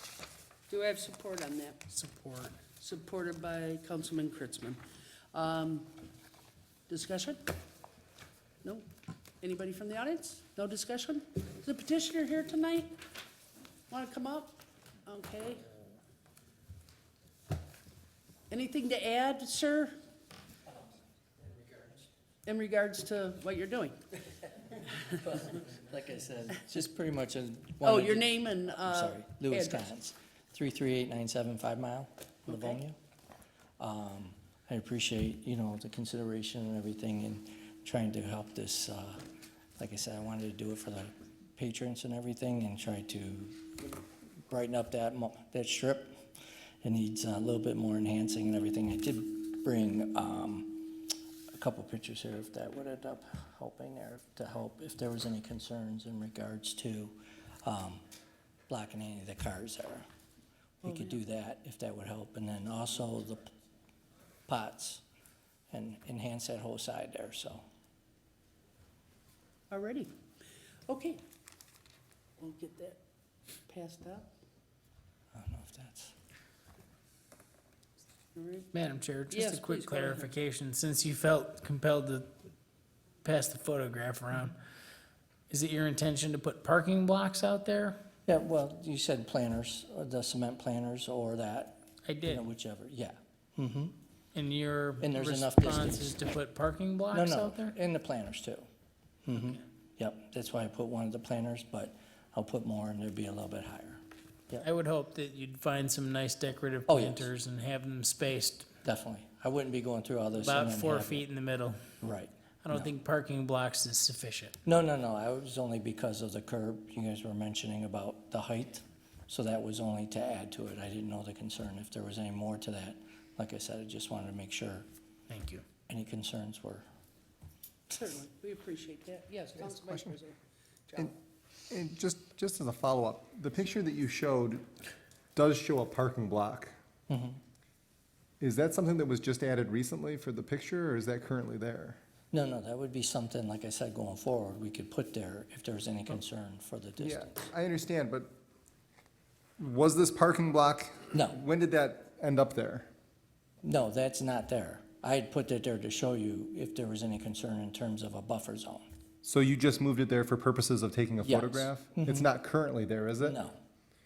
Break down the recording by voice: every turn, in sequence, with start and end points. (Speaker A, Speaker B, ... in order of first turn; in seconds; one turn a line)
Speaker A: 0.7-1.8
Speaker B: 1.9-2.6
Speaker A: 2.8-4.8
Speaker A: 5.3-5.9
Speaker A: 6.9-7.4
Speaker A: 9.4-12.9
Speaker A: 13.9-15.6
Speaker A: 18.5-19.9
Speaker A: 22.4-24.0
Speaker C: 25.1-33.0
Speaker A: 27.8-29.8
Speaker A: 32.5-32.8
Speaker C: 33.8-39.2
Speaker C: 39.8-46.1
Speaker C: 46.8-58.0
Speaker C: 58.7-60.1
Speaker C: 60.8-63.5
Speaker A: 60.8-61.1
Speaker C: 64.5-65.0
Speaker C: 65.7-67.6
Speaker A: 69.7-70.1
Speaker A: 70.9-71.2
Speaker A: 72.4-73.0
Speaker A: 73.7-74.3
Speaker C: 75.3-76.1
Speaker A: 78.3-78.7
Speaker B: 78.7-82.3
Speaker A: 79.3-80.3
Speaker B: 83.2-84.5
Speaker B: 85.5-88.0
Speaker C: 88.3-94.0
Speaker B: 92.0-92.5
Speaker B: 94.3-97.8
Speaker C: 95.0-96.2
Speaker C: 97.1-98.7
Speaker C: 99.2-104.7
Speaker B: 104.6-108.7
Speaker C: 106.9-107.3
Speaker C: 108.8-111.2
Speaker B: 110.4-111.8
Speaker C: 112.0-112.9
Speaker B: 112.6-114.6
Speaker C: 114.6-124.8
Speaker B: 125.3-125.6
Speaker C: 125.9-126.8
Speaker A: 127.9-130.4
Speaker D: 129.8-130.1
Speaker D: 131.7-134.6
Speaker D: 135.3-136.7
Speaker C: 137.1-137.4
Speaker D: 138.4-142.0
Speaker C: 142.3-147.5
Speaker D: 147.0-148.3
Speaker D: 149.6-152.9
Speaker C: 153.6-158.9
Speaker D: 159.2-163.4
Speaker C: 161.2-162.3
Speaker C: 163.2-163.6